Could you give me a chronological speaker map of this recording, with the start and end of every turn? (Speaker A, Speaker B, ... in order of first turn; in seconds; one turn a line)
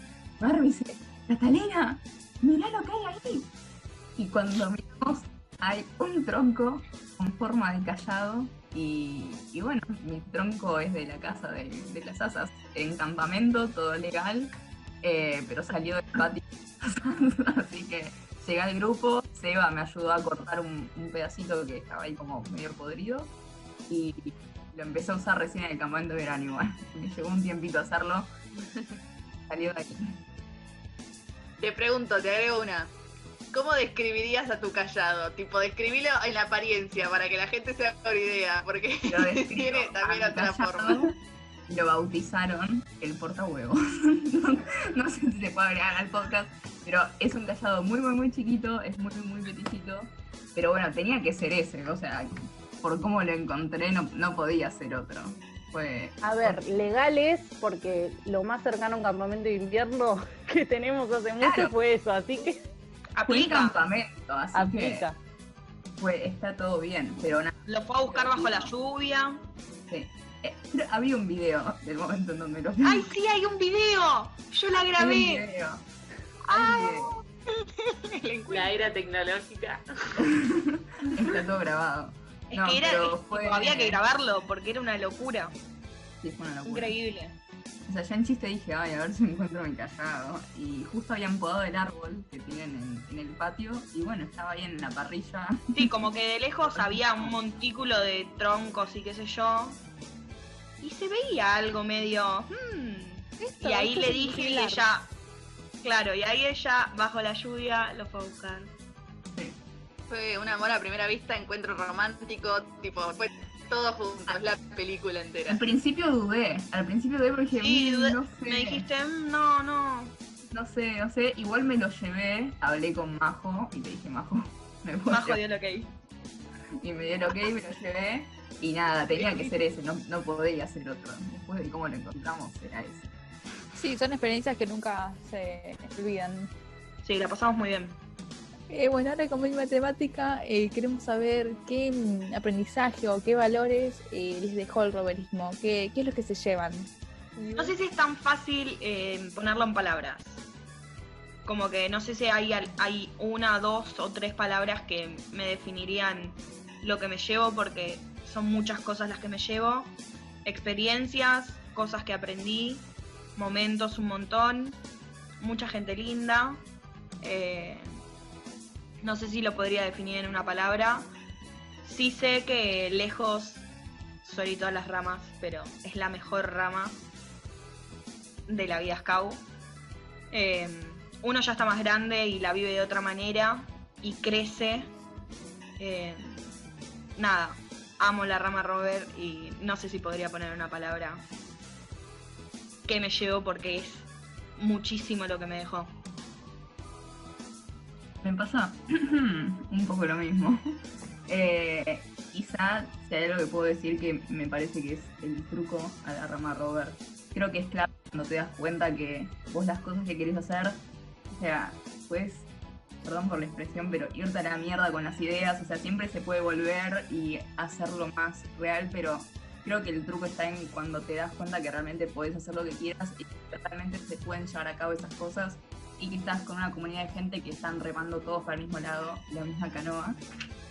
Speaker A: 0.4-3.5
Speaker A: 4.2-14.5
Speaker A: 15.0-23.3
Speaker A: 23.9-28.3
Speaker B: 28.6-28.8
Speaker A: 29.5-30.1
Speaker B: 31.6-32.9
Speaker B: 33.5-41.1
Speaker A: 39.1-41.1
Speaker A: 41.7-56.6
Speaker C: 56.2-62.6
Speaker A: 61.4-61.7
Speaker D: 63.1-63.7
Speaker A: 63.3-65.1
Speaker C: 64.5-65.2
Speaker A: 66.0-68.7
Speaker D: 67.7-69.4
Speaker A: 69.9-73.1
Speaker D: 72.8-75.4
Speaker A: 75.0-75.8
Speaker A: 76.5-77.2
Speaker D: 76.5-77.2
Speaker B: 78.1-78.8
Speaker C: 78.5-79.8
Speaker A: 80.2-84.0
Speaker D: 82.5-85.5
Speaker A: 86.2-87.0
Speaker D: 86.7-87.3
Speaker A: 87.9-95.9
Speaker D: 95.7-99.8
Speaker A: 96.7-97.4
Speaker D: 100.8-105.1
Speaker E: 103.4-104.8
Speaker D: 105.8-108.7
Speaker B: 110.1-115.6
Speaker A: 115.5-118.8
Speaker D: 117.5-120.1
Speaker A: 120.5-125.4
Speaker D: 125.1-125.9
Speaker A: 126.8-133.1
Speaker D: 129.1-129.5
Speaker E: 133.8-136.5
Speaker D: 137.0-138.0
Speaker E: 138.7-147.8
Speaker D: 147.6-150.4
Speaker D: 151.4-164.8
Speaker D: 165.4-166.6
Speaker D: 167.2-168.0
Speaker D: 169.0-171.1
Speaker D: 171.8-173.7
Speaker D: 174.2-177.0
Speaker D: 178.5-179.4
Speaker D: 180.3-184.9
Speaker D: 185.8-186.5
Speaker D: 187.2-191.2
Speaker D: 192.8-195.9
Speaker A: 198.2-200.8
Speaker A: 201.3-212.5
Speaker A: 213.0-230.2